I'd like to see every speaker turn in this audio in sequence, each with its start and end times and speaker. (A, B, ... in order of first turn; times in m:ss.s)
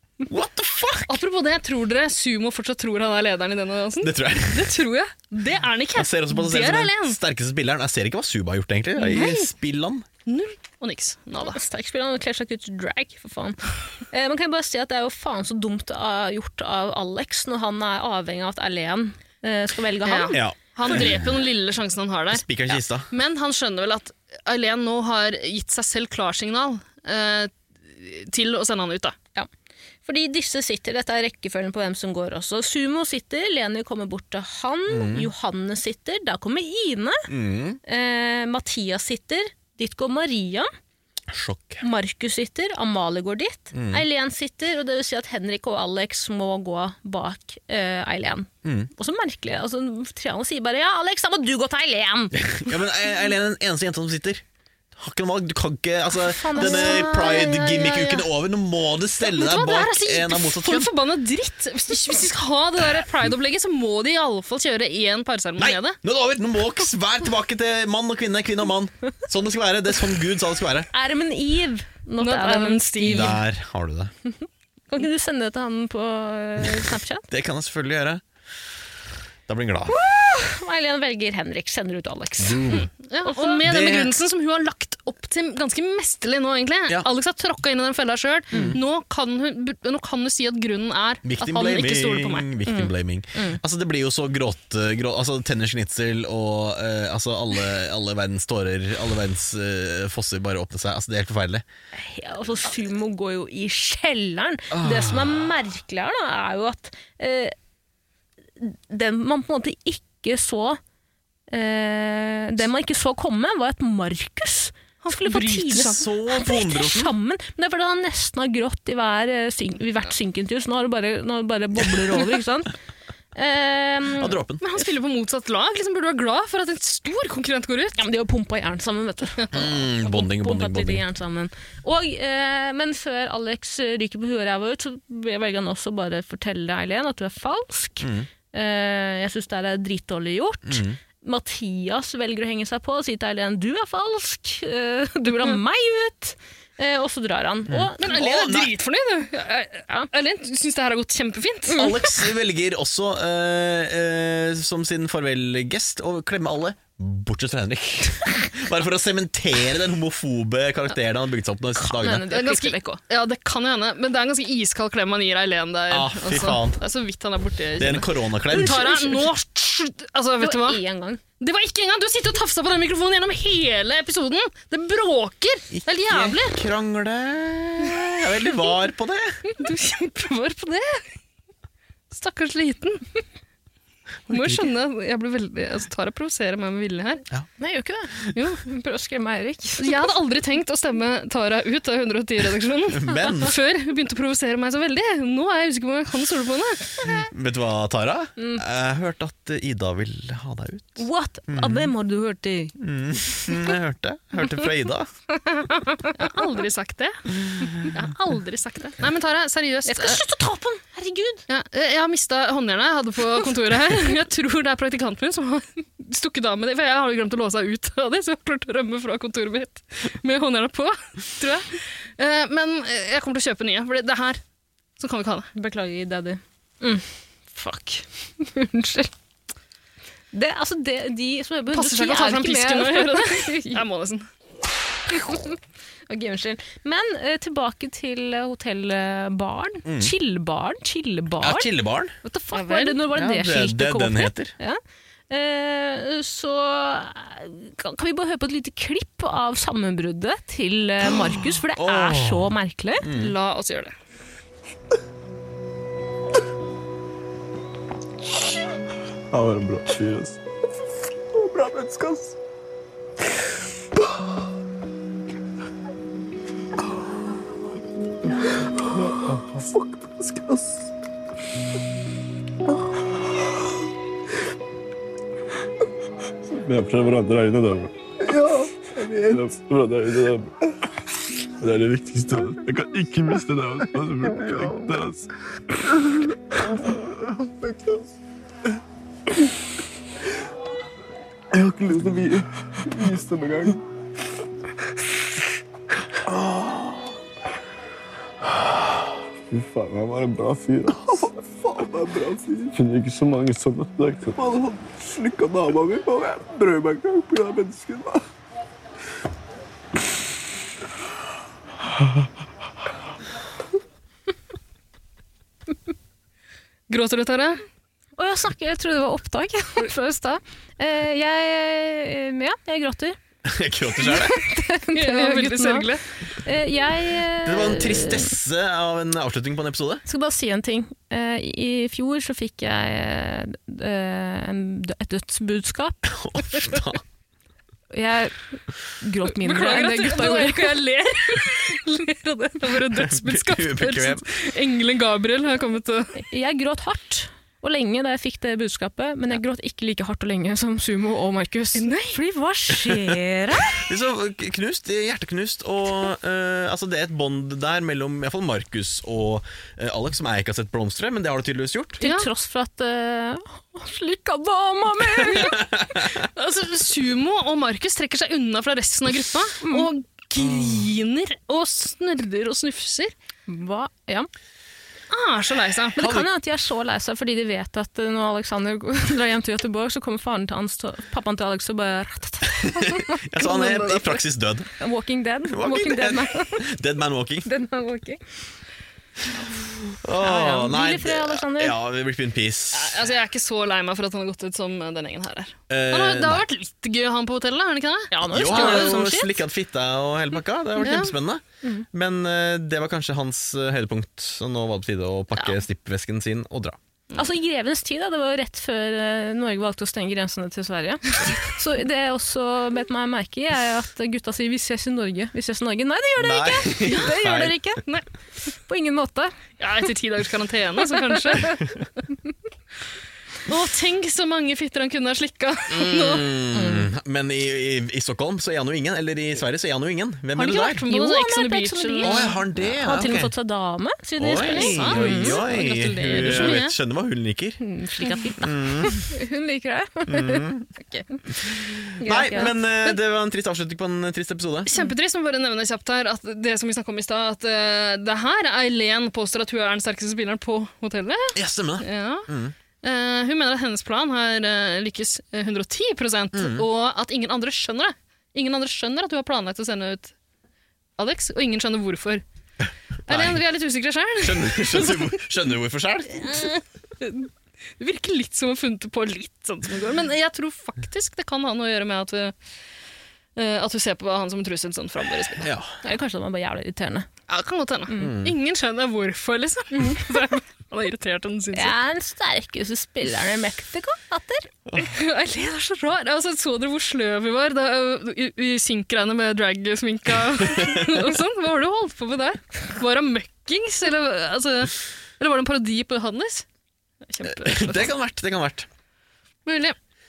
0:00.3-0:01.2 A
0:01.1-0:07.2 B
0:04.0-0:04.8 A
0:06.0-0:10.1 A
0:09.0-0:09.5 B
0:10.3-0:11.6 B
0:11.4-0:20.4 C
0:20.0-0:29.2 B
0:20.3-0:21.3 A
0:22.3-0:23.1 A
0:30.0-0:37.3 C
0:34.9-0:35.3 A
0:37.3-0:37.8 A
0:37.9-0:40.7 C
0:41.3-0:41.8 A
0:41.8-0:52.4 C
0:43.7-0:44.0 A
0:52.3-0:54.4 A
0:55.0-1:00.9 A
0:56.3-0:57.4 C
0:56.6-0:58.3 B
0:59.2-1:06.0 B
1:05.6-1:10.9 A
1:10.9-1:13.4 C
1:12.2-1:13.4 B
1:13.1-1:14.1 A
1:14.3-1:17.3 C
1:16.6-1:18.2 A
1:19.5-1:20.0 A
1:19.9-1:23.6 C
1:22.4-1:22.9 A
1:23.0-1:32.9 B
1:23.6-1:24.2 A
1:28.5-1:28.8 C
1:28.5-1:28.8 A
1:31.2-1:41.6 A
1:33.4-1:33.6 C
1:42.0-1:47.6 C
1:44.7-1:45.5 A
1:48.6-1:50.8 C
1:51.5-2:02.7 C
1:55.0-1:56.1 B
1:55.8-1:57.1 A
2:03.4-2:04.4 C
2:04.2-2:04.6 A
2:04.6-2:08.0 B
2:08.0-2:28.6 C
2:09.5-2:11.0 A
2:18.0-2:18.3 A
2:20.7-2:21.0 A
2:27.7-2:28.7 A
2:28.0-2:32.0 B
2:31.7-2:42.2 A
2:41.8-2:43.0 C
2:42.3-2:50.8 B
2:45.9-2:46.8 A
2:47.8-2:48.9 A
2:48.5-2:49.3 C
2:50.4-2:51.2 C
2:51.4-2:56.6 B
2:55.7-2:59.4 A
2:59.6-3:01.1 B
3:02.1-3:03.0 B
3:04.3-3:04.7 A
3:04.3-3:07.3 B
3:07.6-3:08.1 C
3:08.4-3:08.6 B
3:08.6-3:10.1 C
3:09.8-3:17.0 B
3:12.9-3:13.5 A
3:17.0-3:21.9 A
3:21.0-3:22.7 C
3:22.8-3:25.1 A
3:26.0-3:30.2 B
3:29.9-3:31.4 C
3:31.5-3:44.4 B
3:45.0-3:45.5 B
3:45.5-3:49.1 C
3:50.3-3:53.8 C
3:51.7-3:54.3 B
3:55.1-3:55.6 C
3:56.1-4:01.7 C
3:59.8-4:00.1 A
4:01.4-4:02.2 A
4:02.2-4:04.8 C
4:02.5-4:03.0 B
4:03.1-4:04.5 A
4:05.3-4:13.0 C
4:11.0-4:13.4 A
4:13.1-4:13.9 B
4:19.5-4:20.3 D
4:19.5-4:20.3 E
4:21.4-4:22.4 E
4:29.0-4:30.9 E
4:36.6-4:37.9 D
4:38.2-4:40.5 E
4:39.3-4:40.2 D
4:41.6-4:44.4 D
4:42.3-4:43.1 E
4:43.6-4:45.1 E
4:47.6-4:48.0 E
4:51.6-4:53.8 E
4:56.3-4:57.2 E
4:59.5-5:00.9 D
5:00.8-5:02.8 E
5:02.8-5:04.4 D
5:04.3-5:08.2 E
5:16.9-5:17.6 B
5:18.2-5:23.2 C
5:23.4-5:24.4 A
5:24.0-5:25.9 C
5:24.9-5:26.0 B
5:26.4-5:28.3 C
5:27.4-5:30.0 A
5:30.1-5:36.8 C
5:36.1-5:37.0 A
5:37.9-5:38.5 C
5:39.0-5:40.8 C
5:39.4-5:46.1 B
5:42.9-5:44.2 A
5:46.2-5:53.8 C
5:51.8-5:52.2 B
5:53.8-6:02.0 A
6:02.0-6:05.7 C
6:02.0-6:02.3 B
6:05.2-6:06.2 A
6:06.3-6:13.1 B
6:09.6-6:09.9 C
6:10.4-6:10.9 A
6:13.5-6:14.3 C
6:15.1-6:16.0 B
6:16.0-6:16.3 A
6:16.0-6:24.2 C
6:22.6-6:24.7 A
6:24.8-6:26.6 C
6:25.5-6:27.5 A
6:27.4-6:28.2 C
6:29.9-6:33.1 A
6:30.2-6:31.8 C
6:32.7-6:39.2 B
6:35.7-6:36.5 A
6:38.1-6:39.3 C
6:38.3-6:46.8 A
6:40.8-6:41.1 B
6:47.2-6:57.8 C
6:56.2-6:57.6 A
6:56.9-6:57.2 B
6:58.7-6:59.4 C
6:59.6-7:01.9 B
7:01.1-7:01.5 C
7:03.5-7:06.3 B
7:05.7-7:10.8 A
7:06.5-7:06.9 C
7:10.4-7:12.4 B
7:10.9-7:15.4 C
7:12.0-7:13.3 A
7:14.2-7:17.6 A
7:14.4-7:16.7 B
7:16.1-7:16.6 C
7:17.6-7:21.2 C
7:18.4-7:19.1 A
7:20.1-7:20.7 A
7:21.5-7:24.7 A
7:22.0-7:22.5 C
7:24.7-7:32.3 B
7:31.3-7:32.6 A
7:32.8-7:40.1 B
7:36.3-7:36.7 A
7:41.0-7:42.2 B
7:43.1-7:45.2 B
7:43.1-7:43.4 A
7:44.2-7:46.5 A
7:46.2-7:52.4 B
7:53.4-7:55.5 B
7:55.4-7:55.7 A
7:55.8-7:57.1 C
7:57.3-8:01.8 B
7:58.0-7:58.4 A
7:59.8-8:00.2 C
8:01.5-8:04.5 C
8:04.8-8:16.5 B
8:10.6-8:10.8 A
8:17.0-8:17.9 B
8:17.2-8:18.7 A
8:19.5-8:19.8 B